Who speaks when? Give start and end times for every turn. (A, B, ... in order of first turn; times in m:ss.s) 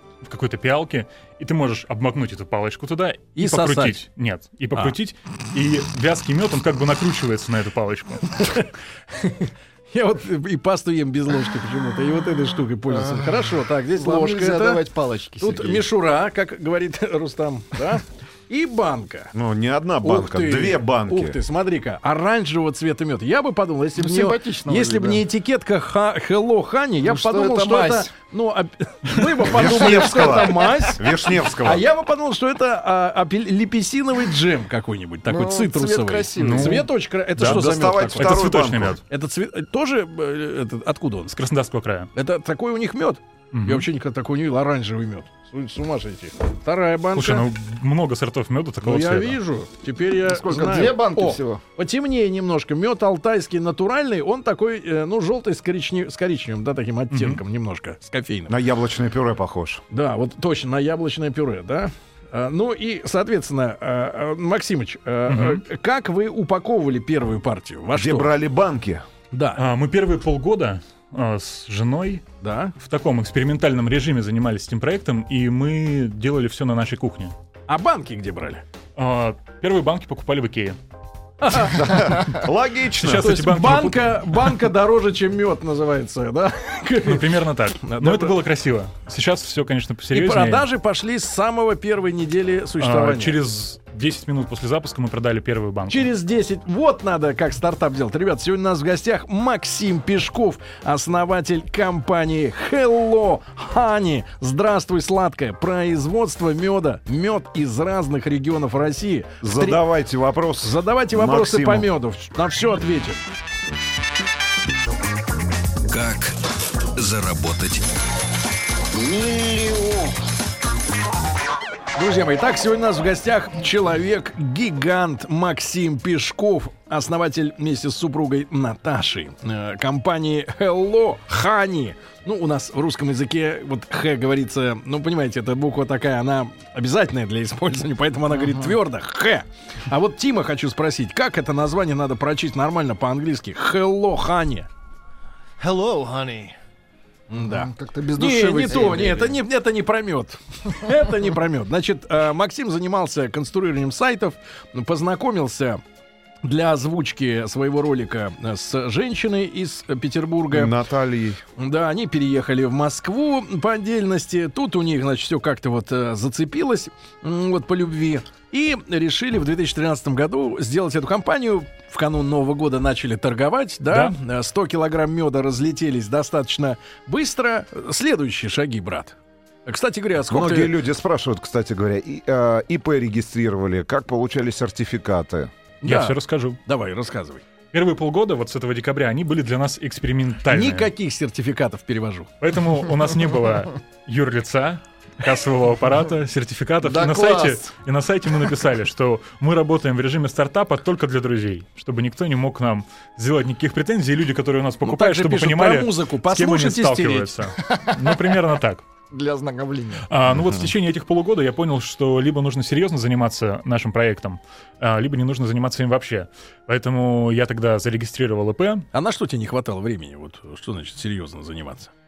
0:00.2-0:08.4 A
0:03.4-0:04.0 B
0:08.3-0:14.8 B
0:12.9-0:13.3 C
0:13.9-0:15.8 C
0:15.4-0:19.3 B
0:19.3-0:21.4 D
0:20.0-0:38.5 B
0:24.0-0:25.2 C
0:27.0-0:28.1 C
0:29.4-0:31.8 D
0:35.2-0:36.9 C
0:36.4-0:39.0 A
0:37.4-0:39.0 D
0:39.1-0:41.3 B
0:41.3-0:42.1 A
0:42.1-0:47.5 B
0:43.5-0:43.9 A
0:47.1-0:49.4 A
0:48.8-0:58.6 B
0:50.3-0:51.6 C
0:57.1-0:57.4 A
0:58.5-0:59.8 D
0:59.9-1:08.3 B
1:05.3-1:05.6 A
1:07.9-1:09.0 D
1:09.3-1:09.6 B
1:09.6-1:12.2 A
1:12.4-1:12.7 B
1:12.8-1:17.3 A
1:17.7-1:18.6 B
1:19.0-1:20.8 A
1:21.4-1:22.3 B
1:21.6-1:23.4 D
1:22.9-1:24.5 A
1:23.0-1:28.4 B
1:27.0-1:30.6 A
1:30.1-1:33.4 B
1:32.8-1:36.1 A
1:35.9-1:49.8 B
1:49.4-1:51.9 D
1:50.6-1:53.2 B
1:55.9-1:57.9 E
1:58.9-2:00.2 E
2:01.9-2:24.7 B
2:18.4-2:18.8 C
2:25.7-2:26.5 E
2:25.7-2:26.4 B
2:27.3-2:35.8 B
2:27.4-2:29.4 C
2:36.4-2:40.8 B
2:40.5-2:41.4 D
2:41.6-3:00.8 B
2:53.9-2:54.2 A
3:00.3-3:05.5 D
3:05.8-3:07.4 B
3:05.8-3:06.6 A
3:07.7-3:10.9 A
3:10.5-3:12.3 B
3:12.4-3:28.8 A
3:16.8-3:17.6 C
3:24.8-3:27.4 B
3:27.7-3:28.2 C
3:29.1-3:30.1 C
3:30.1-3:38.8 A
3:38.9-3:41.9 B